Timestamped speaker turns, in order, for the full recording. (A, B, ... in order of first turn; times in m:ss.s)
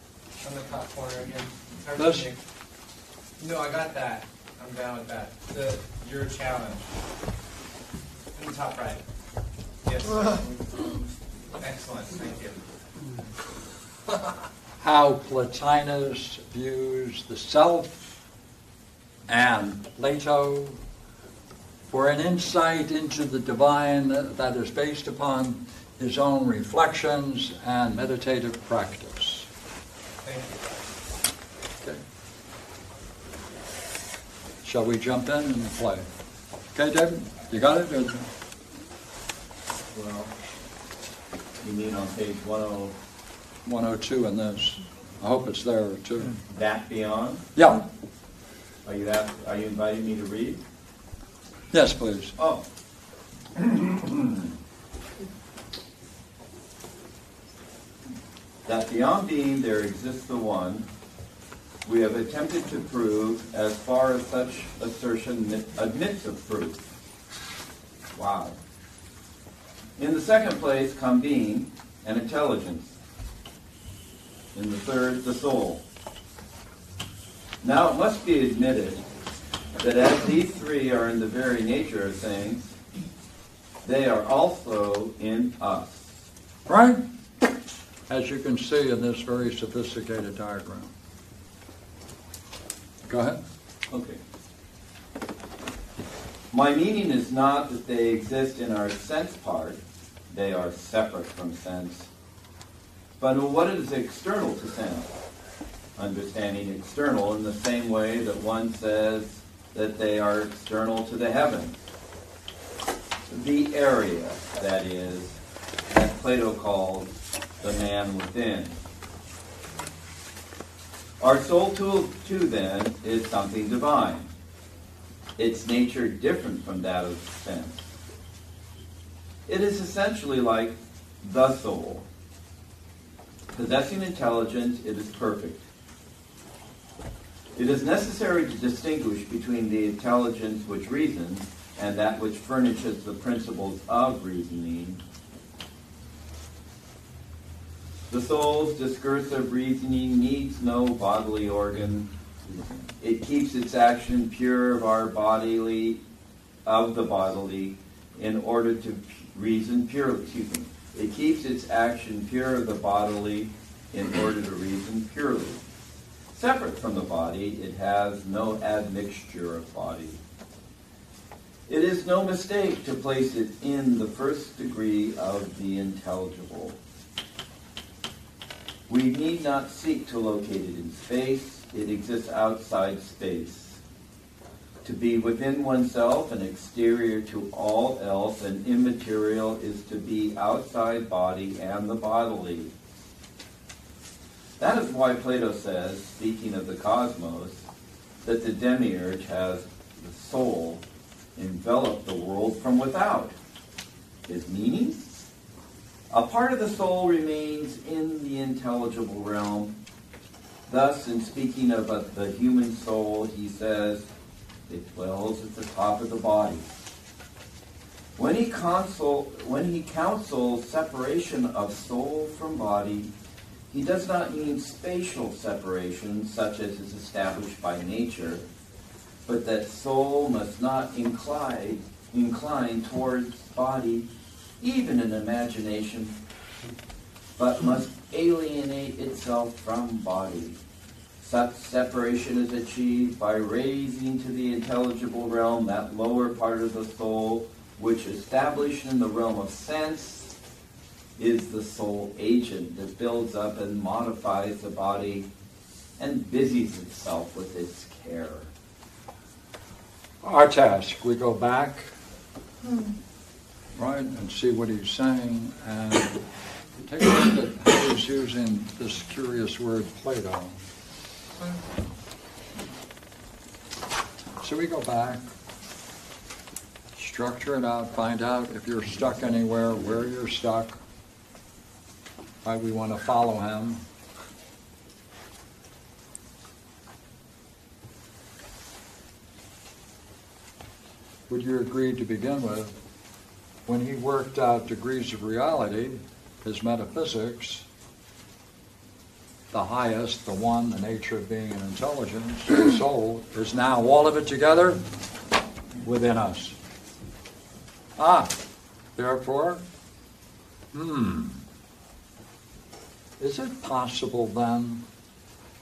0:00.4-0:02.4 A
0:02.0-0:02.3 B
0:03.4-0:06.9 A
0:08.4-0:09.0 A
0:09.8-0:10.5 A
0:11.6-0:12.6 A
0:14.8-0:18.0 B
0:19.3-0:20.8 B
0:21.9-0:29.5 B
0:34.6-0:36.1 B
0:36.7-0:38.3 B
0:39.9-0:40.3 B
0:41.6-0:42.9 C
0:43.6-0:46.4 B
0:46.5-0:47.4 C
0:47.5-0:47.8 B
0:48.8-0:50.6 C
0:51.7-0:52.4 B
0:52.4-0:52.6 C
0:53.6-0:54.5 C
0:58.6-1:00.9 C
1:01.8-1:06.8 C
1:08.1-1:08.6 C
1:10.0-1:12.9 C
1:14.5-1:15.8 C
1:17.6-1:19.0 C
1:19.8-1:22.7 C
1:23.8-1:26.2 C
1:26.7-1:27.0 B
1:28.1-1:30.9 B
1:33.0-1:33.4 B
1:33.9-1:34.2 C
1:36.5-1:42.1 C
1:43.2-1:45.1 C
1:46.0-1:51.8 C
1:53.3-1:55.4 C
1:55.9-1:58.7 C
2:01.2-2:04.3 C
2:05.4-2:07.8 C
2:09.4-2:12.0 C
2:13.5-2:15.6 C
2:17.5-2:25.0 C
2:28.1-2:32.1 C
2:33.0-2:36.0 C
2:36.6-2:45.6 C
2:46.3-2:50.2 C
2:51.7-2:56.8 C
2:58.9-3:03.8 C
3:04.8-3:12.7 C
3:14.6-3:17.6 C
3:18.2-3:20.8 C
3:21.4-3:23.3 C
3:24.2-3:25.1 C
3:26.1-3:29.8 C
3:30.7-3:34.1 C
3:34.7-3:36.6 C
3:38.2-3:43.1 C
3:43.7-3:48.4 C
3:49.2-3:54.1 C
3:54.6-3:56.2 C
3:57.4-4:00.6 C
4:01.2-4:10.3 C
4:11.2-4:15.3 C
4:16.0-4:18.5 C
4:20.2-4:21.9 B
4:23.8-4:26.2 B
4:26.8-4:30.6 B
4:34.4-4:35.2 B
4:37.0-4:40.8 B
4:42.4-4:43.8 B
4:51.3-4:52.7 B
4:53.6-4:57.6 B
4:59.5-5:04.8 B
5:05.8-5:06.6 B
5:08.0-5:08.4 B
5:09.0-5:09.6 B
5:10.7-5:11.4 B
5:13.2-5:14.8 B